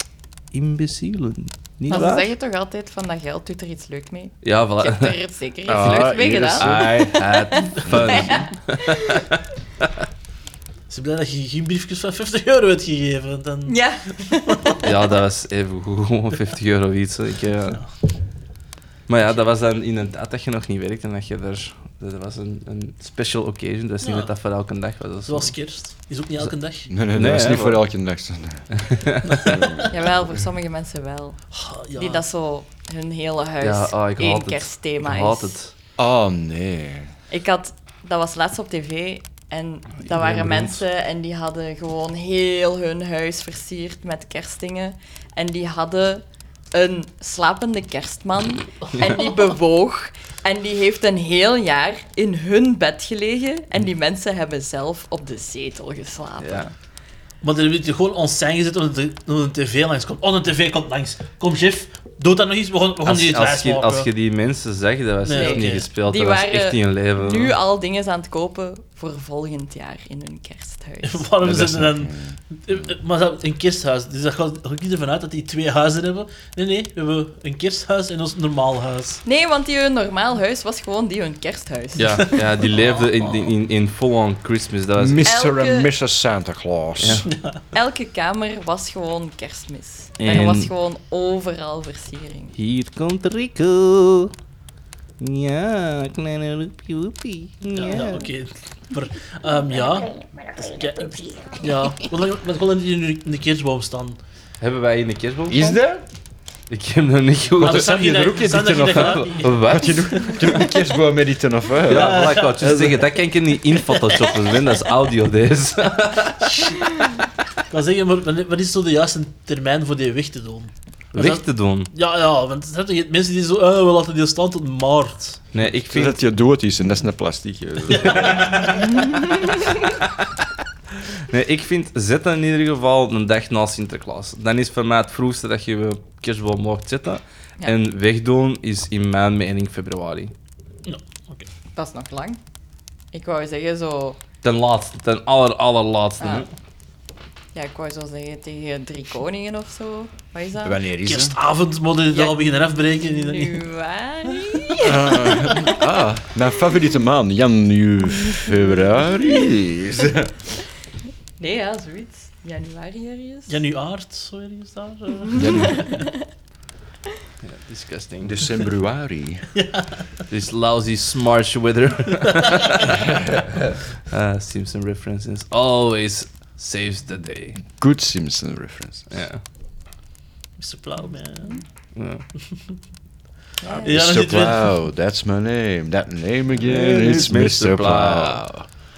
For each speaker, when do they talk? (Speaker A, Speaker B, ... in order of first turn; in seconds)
Speaker A: 0.5-2.2, 4.4-5.2, 5.8-9.4, 14.8-17.8, 19.1-25.5, 27.1-27.8, 28.8-29.5, 33.6-35.7, 40.0-40.8, 56.4-56.7, 63.0-67.5, 82.0-85.3, 87.0-87.3, 90.2-90.7, 92.5-94.3, 95.2-98.3, 104.6-105.8, 106.7-108.0, 108.7-110.5, 111.8-116.7, 121.1-121.9, 125.5-126.2, 128.2-128.5, 131.3-140.3, 144.4-146.5, 167.4-168.4, 170.3-173.0, 174.1-177.6, 179.1-179.4, 181.9-182.2, 186.6-188.4
Speaker B: 1.9-9.2, 13.7-14.8, 29.9-35.6, 37.3-56.7, 65.3-71.2, 79.2-82.4, 85.2-85.9, 87.7-92.5, 141.8-142.4, 143.1-144.2, 146.2-146.5, 147.5-150.8, 152.1-155.8, 161.4-163.6, 165.6-166.1, 183.6-184.0
Speaker C: 5.7-7.1, 26.9-28.8, 29.4-30.0, 36.0-37.1, 71.4-72.8, 85.0-87.3, 105.5-106.0, 107.6-113.0, 125.8-128.5, 150.6-151.3, 154.8-160.3, 165.3-165.8, 168.2-169.5, 173.0-173.5, 177.8-179.1, 183.8-188.7
Speaker D: 10.9-13.8, 14.5-14.8, 24.0-24.3, 25.2-26.9, 29.3-29.9, 31.5-32.2, 57.4-64.1, 65.2-65.8, 71.0-79.2, 82.6-83.5, 87.2-87.6, 97.7-104.2, 107.6-110.5, 111.9-113.0, 113.7-114.5, 116.4-116.9, 117.7-125.4, 127.9-128.9, 140.8-141.5, 151.0-153.7, 163.5-166.0, 169.5-170.0, 180.6-181.6, 183.8-184.6